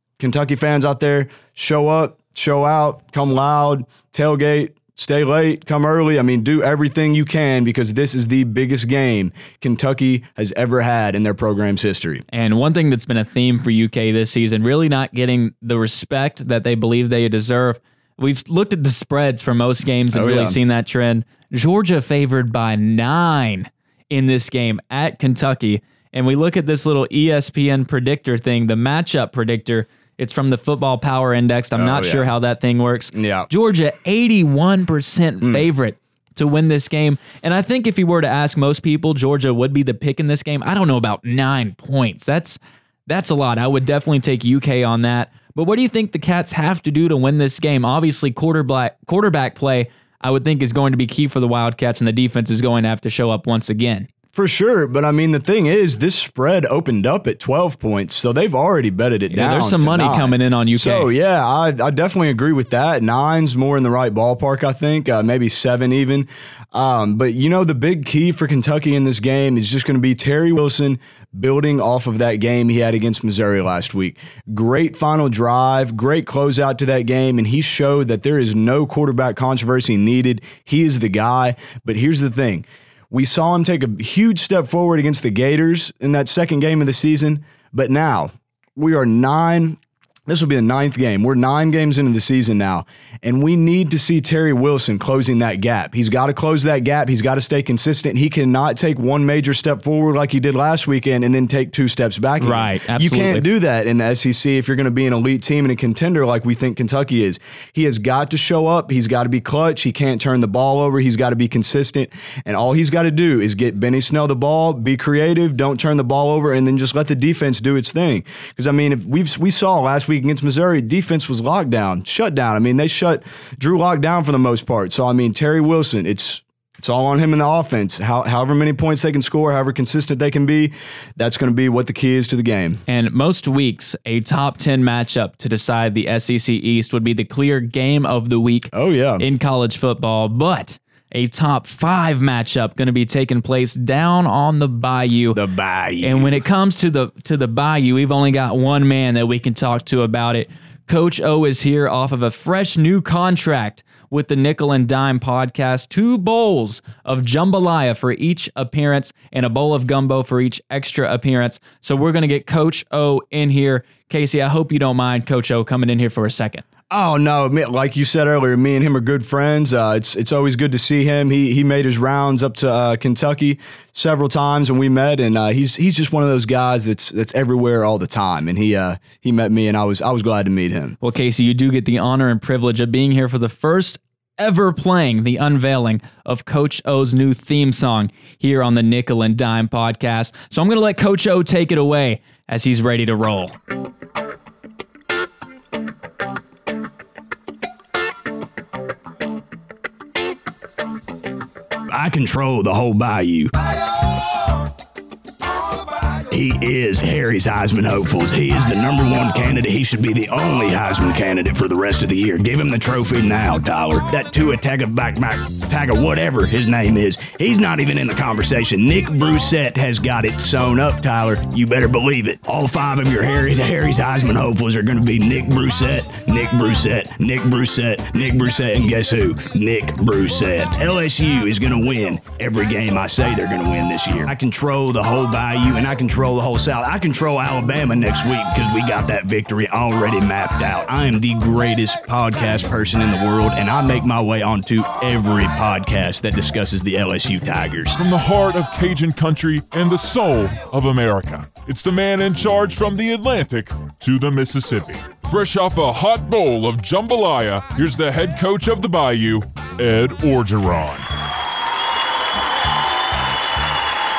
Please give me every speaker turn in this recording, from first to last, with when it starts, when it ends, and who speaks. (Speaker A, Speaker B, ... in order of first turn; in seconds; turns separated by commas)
Speaker A: 0.2-12.2, Speaker B: 12.3-54.1, Speaker A: 20.1-20.6, Speaker A: 31.8-32.2, Speaker A: 33.1-33.5, Speaker A: 54.3-89.8, Speaker B: 59.3-61.1, Speaker A: 90.3-132.8, Speaker B: 102.4-103.5, Speaker B: 132.9-145.4, Speaker A: 138.7-139.2, Speaker A: 145.3-146.4, Speaker B: 146.0-166.6, Speaker A: 166.9-181.0, Speaker B: 181.0-193.6, Speaker A: 201.9-203.5, Speaker A: 206.3-248.0, Speaker C: 247.9-261.1